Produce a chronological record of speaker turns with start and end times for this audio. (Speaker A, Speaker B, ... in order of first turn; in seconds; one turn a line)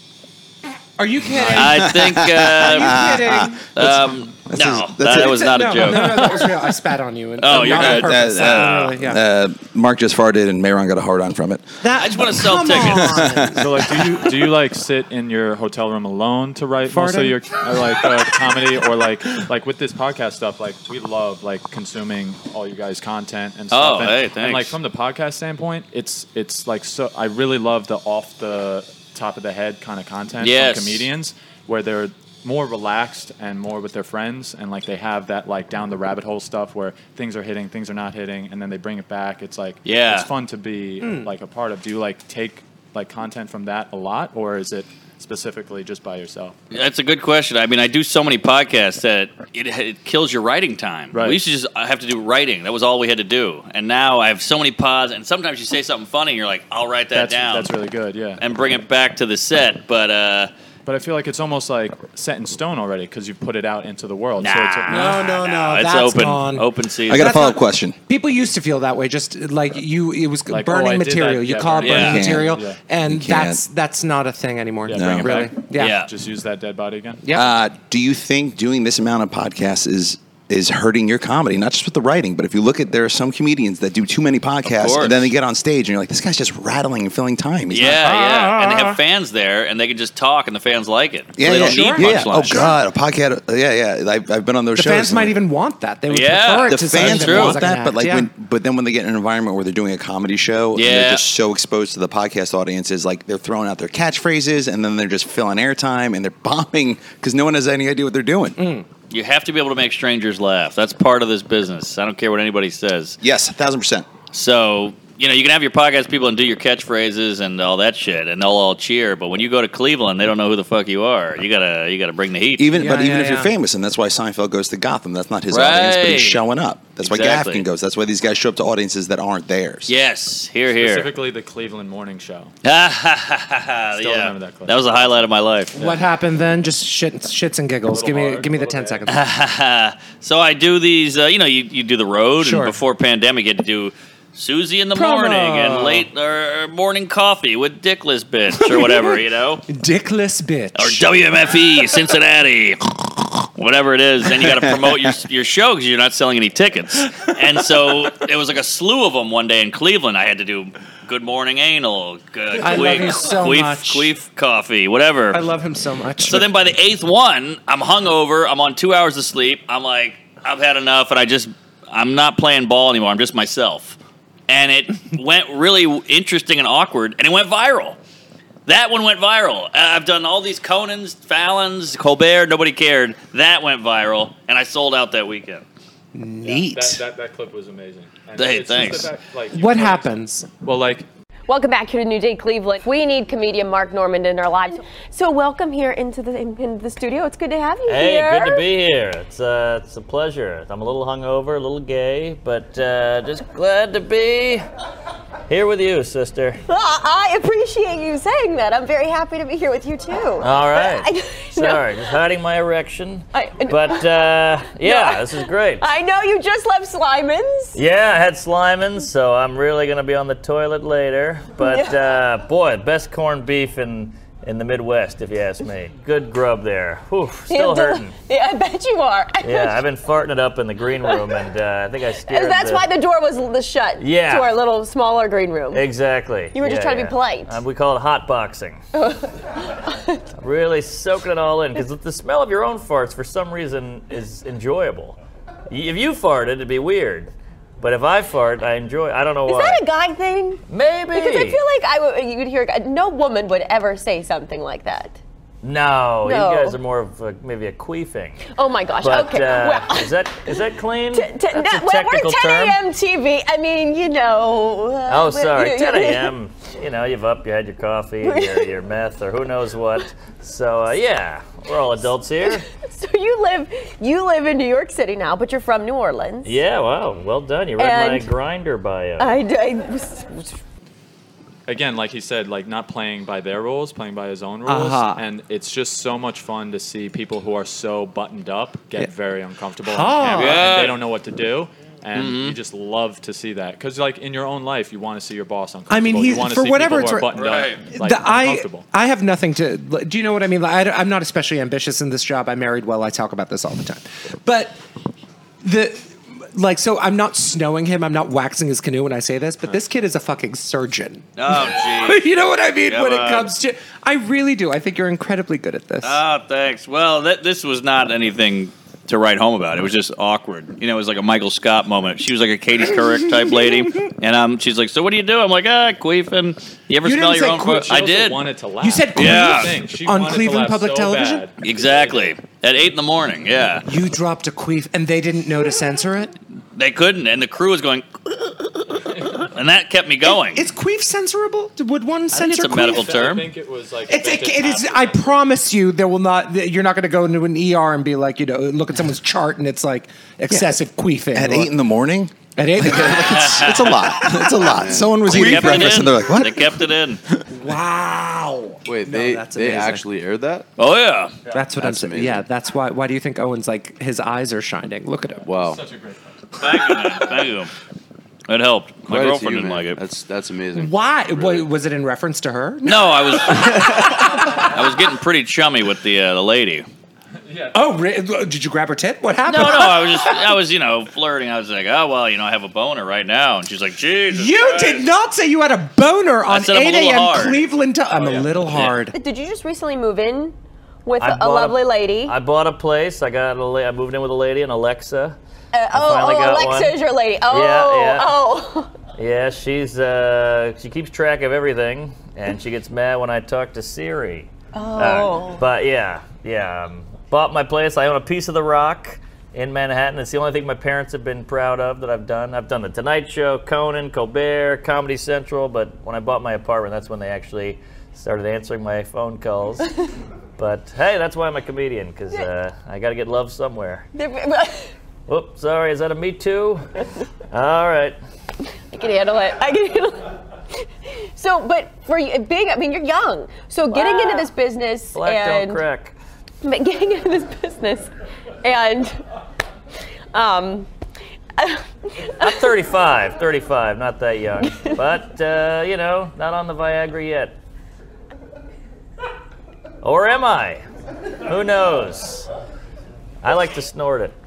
Speaker A: 1.0-3.6
Speaker B: 1.4-3.1
Speaker C: 1.5-5.7
Speaker B: 3.7-6.5
Speaker A: 5.0-9.2
Speaker B: 7.4-8.9
Speaker C: 7.5-11.7
Speaker A: 11.8-14.4
Speaker B: 11.9-13.3
Speaker C: 12.9-13.6
Speaker D: 13.5-46.5
Speaker A: 16.9-18.2
Speaker B: 23.7-24.8
Speaker B: 30.4-31.1
Speaker B: 39.8-40.3
Speaker A: 41.0-41.3
Speaker B: 46.7-57.7
Speaker D: 51.1-51.4
Speaker D: 57.1-58.4
Speaker B: 58.4-60.5
Speaker D: 60.9-65.2
Speaker B: 64.4-67.4
Speaker A: 64.9-76.0
Speaker C: 67.1-68.0
Speaker D: 70.5-72.8
Speaker B: 71.8-72.2
Speaker C: 72.0-73.6
Speaker D: 74.8-77.2
Speaker C: 74.9-75.3
Speaker B: 75.8-76.1
Speaker A: 77.2-77.5
Speaker C: 77.3-88.2
Speaker B: 84.6-85.3
Speaker B: 87.7-92.7
Speaker A: 88.0-89.0
Speaker C: 91.4-95.4
Speaker A: 91.4-92.8
Speaker A: 94.8-98.3
Speaker B: 96.1-97.6
Speaker C: 96.6-108.6
Speaker B: 100.7-101.2
Speaker A: 108.6-108.8
Speaker B: 109.1-113.2
Speaker C: 113.2-114.1
Speaker B: 114.3-122.7
Speaker C: 122.6-129.9
Speaker A: 122.7-123.5
Speaker B: 125.5-126.4
Speaker B: 127.0-127.6
Speaker B: 129.9-131.1
Speaker D: 130.7-132.5
Speaker B: 132.6-135.8
Speaker D: 133.9-135.1
Speaker A: 135.7-139.2
Speaker D: 135.8-136.0
Speaker D: 137.9-139.0
Speaker B: 139.1-149.6
Speaker A: 142.4-142.8
Speaker A: 144.9-146.1
Speaker A: 148.6-151.1
Speaker B: 150.7-165.4
Speaker C: 154.4-154.7
Speaker A: 162.6-164.1
Speaker A: 165.3-166.5
Speaker B: 166.2-174.0
Speaker B: 174.5-178.0
Speaker B: 178.7-185.6
Speaker A: 186.1-187.0
Speaker D: 186.4-191.1
Speaker B: 188.3-189.1
Speaker A: 189.5-190.5
Speaker E: 191.5-198.7
Speaker F: 197.9-204.6
Speaker F: 205.5-206.6
Speaker E: 206.7-212.2
Speaker F: 210.4-215.8
Speaker E: 213.3-217.8
Speaker F: 217.7-228.1
Speaker E: 221.6-222.1
Speaker E: 227.5-229.8
Speaker F: 229.4-232.9
Speaker E: 232.2-235.9
Speaker F: 234.0-234.5
Speaker F: 235.7-238.8
Speaker E: 236.5-237.6
Speaker E: 238.9-239.3
Speaker E: 239.8-240.2
Speaker F: 240.4-245.2
Speaker F: 245.7-249.8
Speaker E: 249.4-255.2
Speaker F: 250.7-251.6
Speaker F: 255.6-258.4
Speaker E: 256.2-256.8
Speaker E: 258.4-260.6
Speaker F: 259.0-262.8
Speaker E: 261.1-266.3
Speaker F: 265.1-272.6
Speaker E: 268.2-268.7
Speaker E: 272.4-276.6
Speaker F: 276.4-279.4
Speaker E: 277.8-278.3
Speaker E: 279.2-280.6
Speaker D: 281.7-298.9
Speaker A: 284.6-285.2
Speaker A: 289.8-290.7
Speaker B: 290.3-291.0
Speaker B: 292.1-292.6
Speaker A: 295.9-304.8
Speaker B: 297.3-297.8
Speaker A: 305.6-316.2
Speaker B: 311.4-312.2
Speaker B: 312.9-313.5
Speaker B: 316.0-328.4
Speaker A: 327.0-327.9
Speaker D: 327.6-332.3
Speaker A: 328.8-331.5
Speaker B: 329.1-329.8
Speaker B: 331.6-333.9
Speaker A: 333.8-336.3
Speaker B: 336.8-340.6
Speaker D: 339.1-339.4
Speaker A: 340.3-343.2
Speaker B: 342.3-343.5
Speaker D: 342.8-345.3
Speaker A: 344.1-351.7
Speaker C: 351.3-356.8
Speaker A: 352.6-354.6
Speaker B: 353.3-354.0
Speaker G: 354.6-355.2
Speaker B: 355.2-357.2
Speaker A: 355.5-355.9
Speaker A: 357.5-360.0
Speaker G: 358.9-360.7
Speaker B: 360.8-361.3
Speaker A: 361.5-365.4
Speaker G: 361.8-362.4
Speaker D: 365.3-366.3
Speaker G: 365.4-365.8
Speaker B: 366.6-367.7
Speaker B: 368.5-370.0
Speaker G: 369.1-371.7
Speaker A: 370.7-374.8
Speaker B: 372.8-376.9
Speaker D: 377.4-377.8
Speaker A: 377.7-380.5
Speaker B: 379.4-385.0
Speaker A: 384.3-389.1
Speaker B: 386.5-387.6
Speaker D: 388.1-388.5
Speaker B: 388.7-388.9
Speaker E: 389.1-392.4
Speaker F: 391.2-395.4
Speaker E: 395.7-398.9
Speaker F: 395.9-397.0
Speaker F: 397.5-398.3
Speaker F: 399.1-419.9
Speaker E: 404.7-405.7
Speaker F: 420.6-424.1
Speaker E: 424.1-424.9
Speaker F: 425.3-426.9
Speaker F: 427.5-428.2
Speaker E: 428.9-430.3
Speaker E: 431.3-435.8
Speaker F: 433.9-434.5
Speaker F: 435.1-436.1
Speaker E: 436.6-438.1
Speaker E: 438.6-439.2
Speaker E: 440.3-440.9
Speaker E: 441.6-442.7
Speaker F: 442.4-447.6
Speaker E: 444.6-445.0
Speaker F: 450.0-450.8
Speaker F: 451.4-452.5
Speaker F: 453.4-454.4